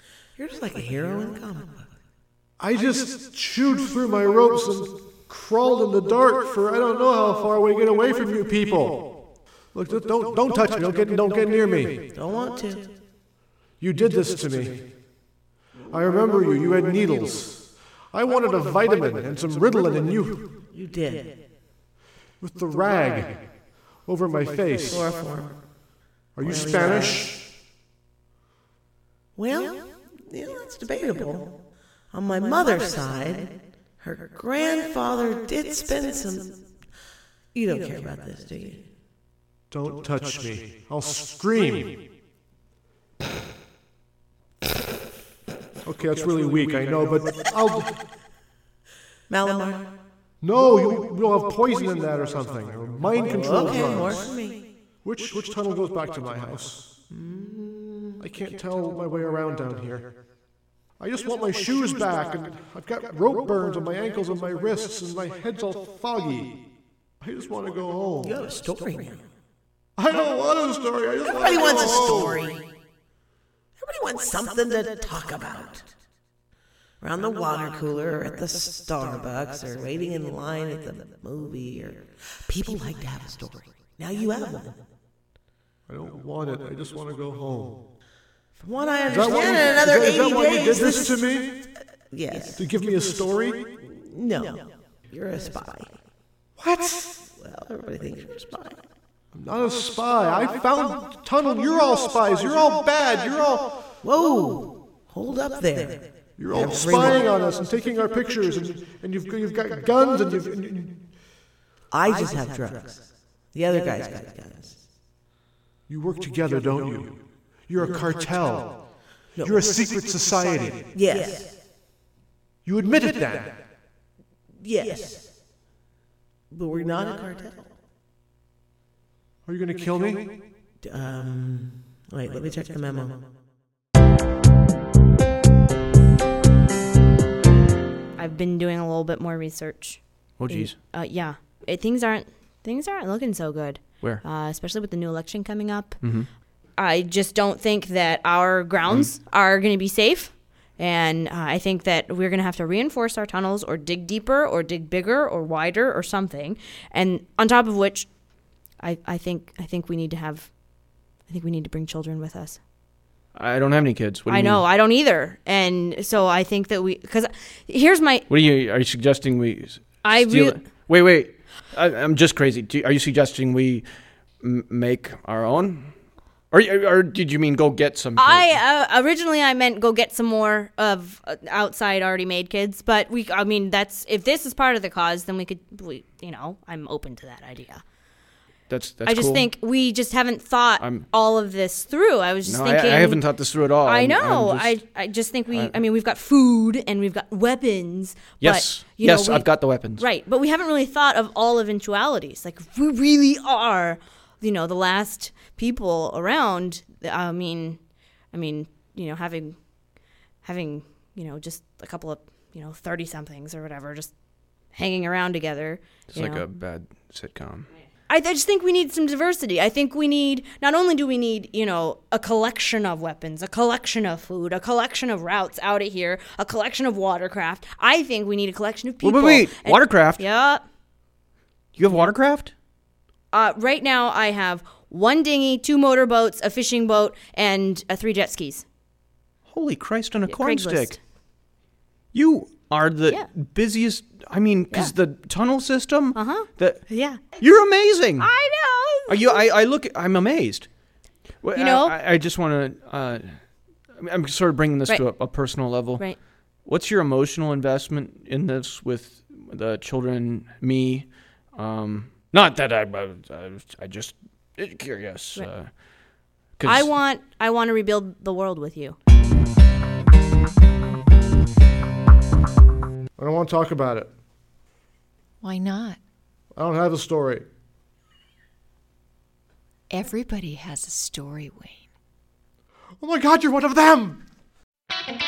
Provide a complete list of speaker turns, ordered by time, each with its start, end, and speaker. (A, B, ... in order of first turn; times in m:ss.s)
0:00.4-0:01.9 A
0:02.6-0:09.2 B
0:09.7-0:12.1 B
0:12.1-0:12.9 A
0:13.8-0:14.8 B
0:15.9-0:20.5 B
0:20.7-0:21.3 A
0:22.4-0:23.4 B
0:24.1-0:25.1 B
0:24.9-0:25.6 A
0:26.4-0:27.4 B
0:26.4-0:27.2 A
0:29.4-0:31.6 A
0:32.1-0:36.6 A
0:37.5-0:38.8 A
0:39.7-0:42.0 B
0:45.8-0:48.0 B
0:49.3-0:49.9 A
0:50.4-0:54.4 B
0:53.2-0:54.6 A
0:55.0-0:56.9 B
0:57.1-0:58.2 A
0:58.2-1:00.2 B
1:01.0-1:06.6 B
1:07.2-1:08.4 B
1:08.2-1:09.2 A
1:10.0-1:12.4 B
1:11.3-1:12.6 A
1:13.8-1:15.9 A
1:17.0-1:24.8 A
1:25.9-1:27.8 B
1:28.6-1:31.2 A
1:29.1-1:31.7 B
1:32.1-1:32.7 A
1:32.6-1:33.7 B
1:33.8-1:36.0 A
1:36.6-1:37.2 B
1:37.3-1:38.8 A
1:39.3-1:43.8 B
1:44.0-1:47.2 A
1:46.4-1:51.0 B
1:51.9-1:54.8 A
1:55.9-1:58.8 B
1:59.4-2:00.0 A
1:59.4-2:00.9 B
2:00.9-2:01.5 A
2:02.6-2:03.6 B
2:04.6-2:05.3 A
2:06.5-2:07.7 A
2:09.5-2:10.4 B
2:10.8-2:13.2 A
2:18.2-2:26.0 C
2:20.4-2:20.8 D
2:26.0-2:26.3 D
2:26.8-2:38.1 C
2:38.8-2:40.5 C
2:41.3-2:42.6 C
2:43.3-2:44.6 D
2:44.3-2:48.3 C
2:48.3-2:53.9 D
2:50.0-2:50.6 C
2:54.4-2:55.9 D
2:56.5-2:58.6 D
2:58.2-3:07.8 C
3:08.7-3:09.5 D
3:09.0-3:13.2 C
3:10.8-3:11.1 D
3:12.4-3:14.8 D
3:13.8-3:27.8 C
3:18.4-3:20.0 D
3:28.3-3:29.6 C
3:30.4-3:34.1 C
3:34.7-3:36.4 C
3:36.1-3:37.7 D
3:38.1-3:50.6 C
3:49.0-3:50.2 D
3:51.8-3:52.5 D
3:53.3-3:58.6 C
3:59.5-4:01.0 D
4:00.3-4:01.0 C
4:02.1-4:06.8 D
4:06.2-4:07.4 C
4:07.4-4:08.3 D
4:08.2-4:09.4 C
4:09.1-4:10.7 D
4:11.4-4:13.3 D
4:11.6-4:12.0 C
4:14.0-4:16.1 D
4:16.6-4:25.7 D
4:26.6-4:26.9 D
4:26.6-4:29.0 C
4:33.2-4:34.1 B
4:35.4-4:36.0 E
4:36.5-4:37.5 B
4:39.9-4:41.8 E
4:43.0-4:44.2 B